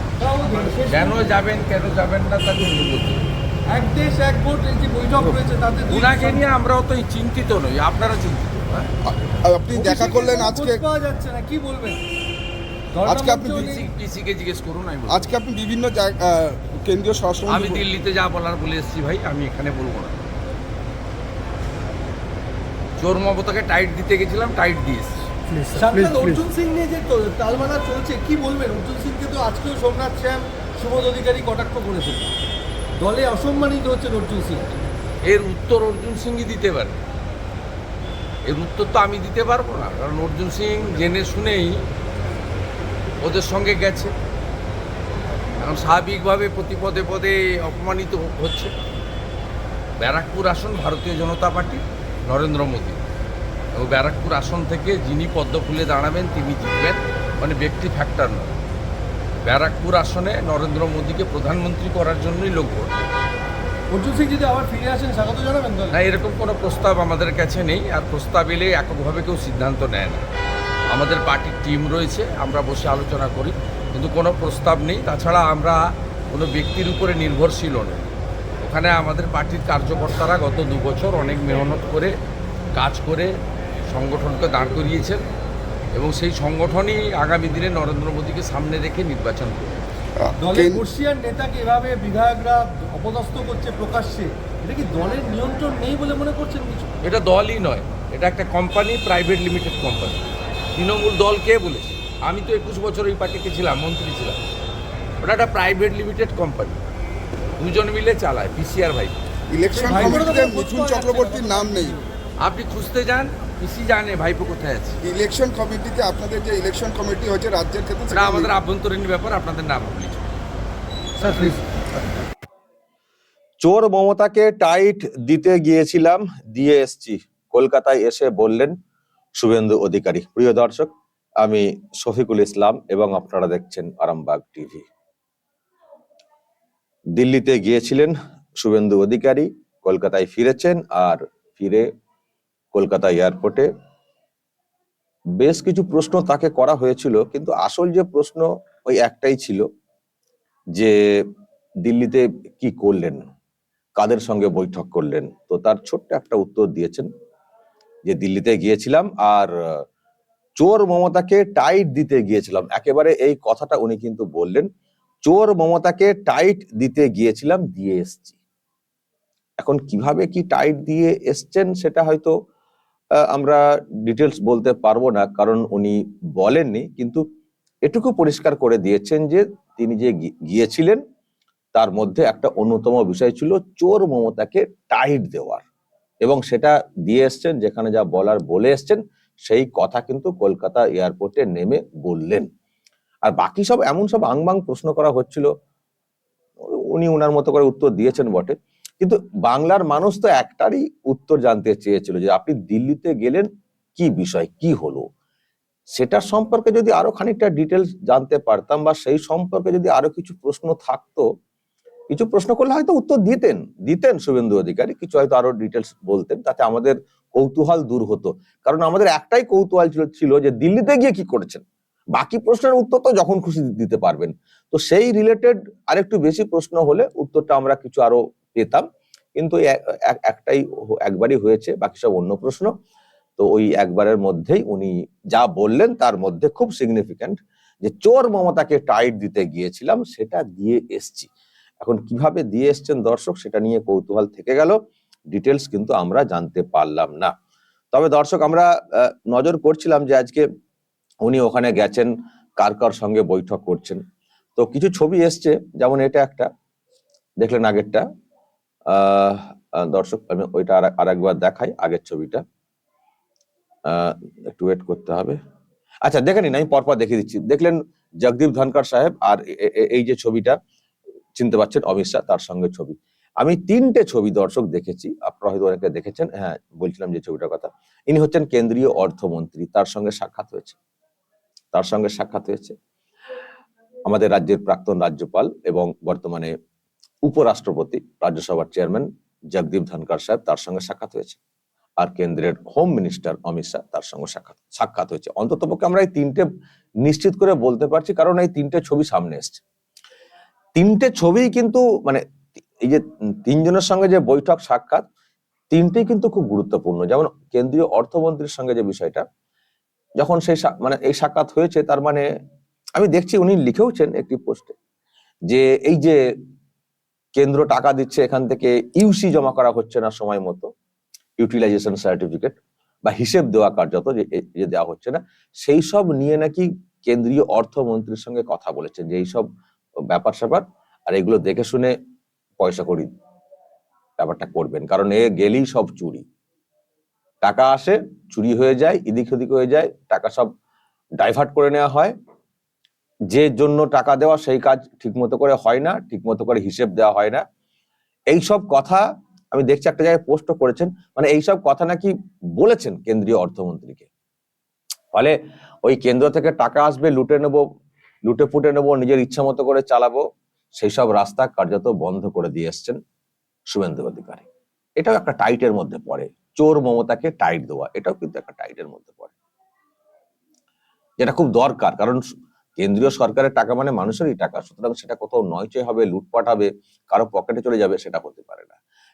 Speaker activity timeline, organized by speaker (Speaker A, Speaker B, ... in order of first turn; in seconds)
Speaker A: 0.2-1.2, 3.7-6.4, 9.7-12.0, 12.9-13.8, 25.7-32.3, 33.0-34.9, 63.9-65.9, 90.4-96.9, 109.7-111.8
Speaker B: 0.9-3.3, 5.2-8.9, 13.6-15.3, 17.5-20.3, 23.0-25.2, 35.2-37.0, 38.5-41.8, 43.2-44.1, 45.6-48.7, 50.0-53.0, 53.7-58.5, 59.4-63.0, 65.9-70.2, 70.9-82.1, 82.7-83.3, 83.9-85.2, 85.9-89.8, 97.0-100.2, 100.8-104.4, 105.2-106.8, 107.6-109.2, 109.9-110.3, 112.4-115.0, 118.1-120.3
Speaker C: 9.1-10.9, 13.1-13.8, 15.1-17.8, 25.8-26.4, 90.2-90.9, 109.5-112.1, 115.0-118.5
Speaker D: 123.6-128.7, 129.4-130.9, 131.4-134.8, 137.2-141.8, 142.7-143.7, 145.4-149.6, 150.7-151.2, 151.8-153.3, 153.9-157.1, 158.1-159.8, 160.6-164.7, 165.2-168.4, 169.6-172.3, 173.3-177.2, 177.8-181.0, 181.7-185.6, 186.2-192.5, 193.2-195.5, 196.6-205.1, 205.9-211.2, 212.1-221.6, 222.1-228.8, 229.4-232.7, 233.4-241.3, 241.8-244.7, 245.3-247.3, 247.9-250.4, 251.2-254.0, 254.6-256.5, 257.4-258.0, 258.9-262.4, 263.9-265.4, 266.0-270.6, 271.3-280.8, 281.7-282.7, 284.1-286.5, 287.2-291.4, 292.0-296.5, 297.0-299.6, 300.8-302.2, 302.8-305.0, 305.7-309.2, 310.2-312.2, 312.9-314.7, 315.5-316.2, 317.3-320.7, 321.4-329.5, 330.1-331.9, 332.6-333.1, 334.2-336.2, 337.4-340.5, 341.2-342.1, 343.3-347.4, 348.3-354.1, 355.1-357.6, 358.2-360.2, 360.8-363.0, 363.7-364.5, 365.0-369.4, 371.2-372.2, 372.8-378.8